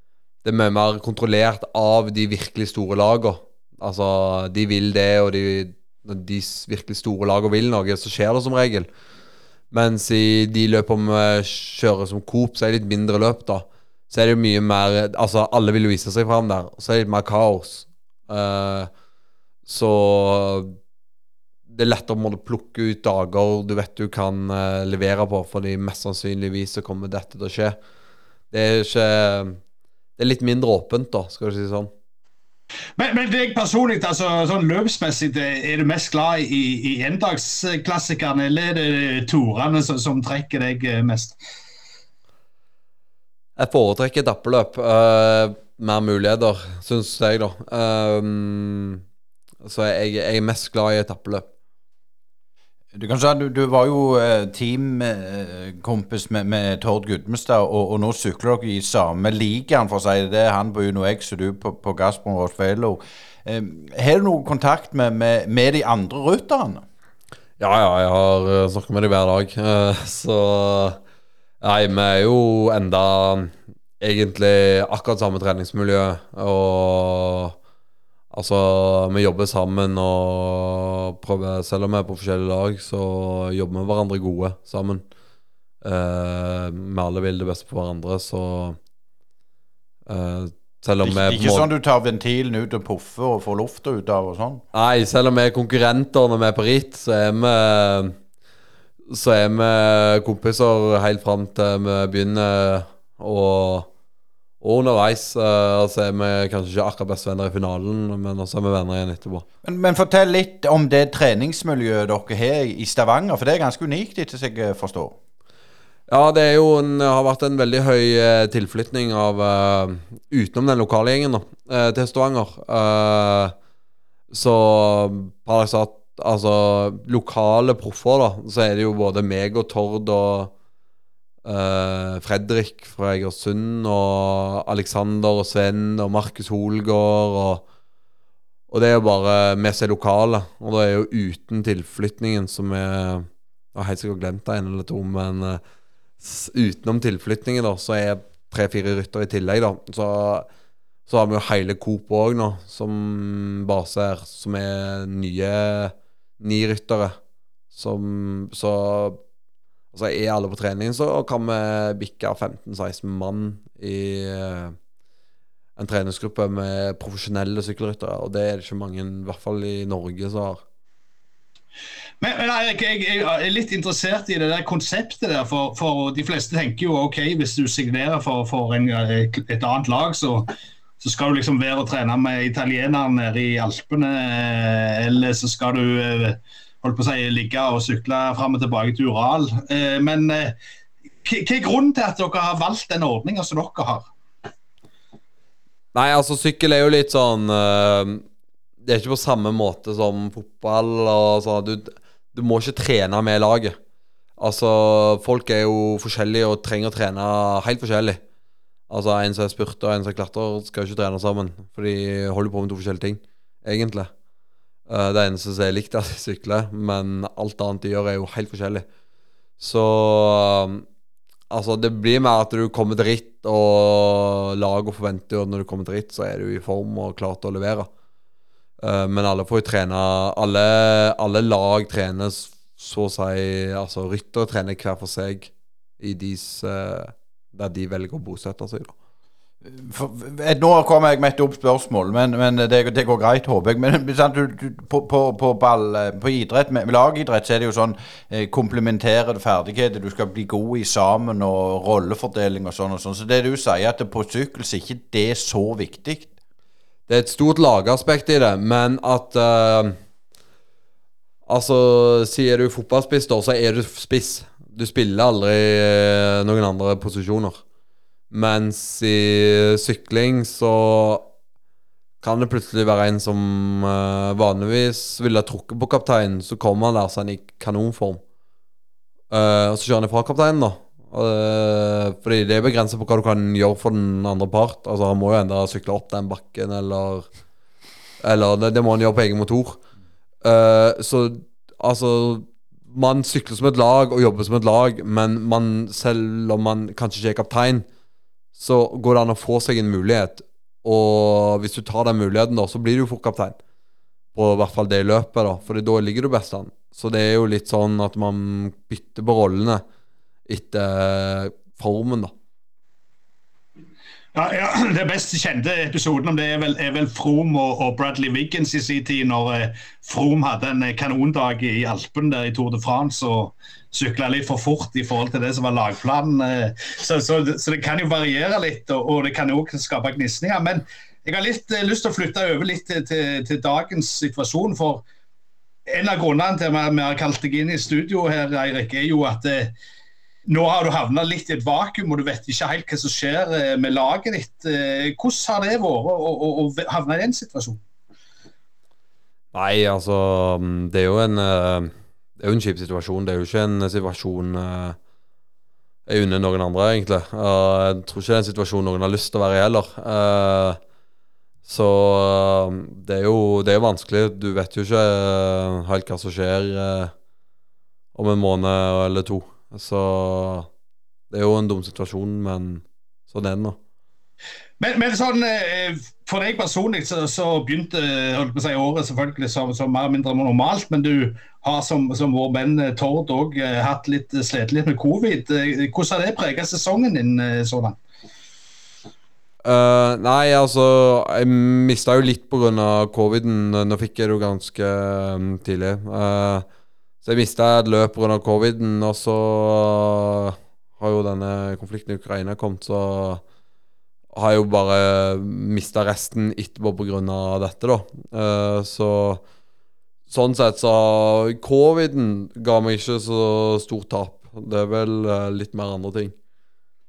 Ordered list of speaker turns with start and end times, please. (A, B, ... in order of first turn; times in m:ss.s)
0:00.4-0:08.9 A
0:09.7-0:18.9 A
0:19.6-0:20.8 A
0:21.7-0:27.8 A
0:28.5-0:29.6 A
0:30.2-0:31.9 A
0:33.0-0:41.4 B
0:43.6-0:49.0 A
0:49.6-0:51.5 A
0:52.9-1:06.8 C
1:07.6-1:11.0 A
1:11.6-1:17.5 A
1:18.3-1:25.0 A
1:25.8-1:28.8 A
1:30.1-1:31.7 A
1:31.0-1:34.6 C
1:34.7-1:38.1 A
1:39.1-1:43.9 A
1:44.6-1:49.4 A
1:49.6-1:55.2 C
1:56.1-2:03.5 A
2:04.3-2:10.5 A
2:11.4-2:17.6 A
2:18.7-2:25.6 A
2:26.2-2:30.5 A
2:31.1-2:37.2 A
2:37.7-2:39.2 A
2:39.9-2:44.8 A
2:45.8-2:50.6 A
2:52.2-3:00.5 B
3:01.0-3:10.6 B
3:11.2-3:14.0 B
3:15.9-3:18.2 A
3:18.8-3:23.8 A
3:24.4-3:28.2 A
3:28.9-3:34.1 A
3:34.9-3:38.8 A
3:39.6-3:40.8 A
3:41.5-3:47.9 A
3:48.8-3:58.9 A
3:59.6-4:16.3 C
4:17.1-4:20.0 A
4:21.5-4:27.6 A
4:28.3-4:31.3 A
4:32.2-4:38.2 A
4:39.3-4:47.3 A
4:48.2-4:49.8 A
4:50.4-4:57.8 A
4:58.5-5:03.6 A
5:04.3-5:09.8 A
5:10.5-5:12.3 A
5:14.3-5:35.0 B
5:35.9-5:39.7 B
5:40.4-5:47.8 B
5:49.5-5:55.0 A
5:56.1-6:00.8 A
6:01.6-6:07.1 A
6:08.1-6:10.7 A
6:11.3-6:13.8 A
6:14.8-6:28.0 B
6:29.6-6:36.6 A
6:37.2-6:43.4 A
6:44.3-6:49.4 A
6:50.3-6:56.3 A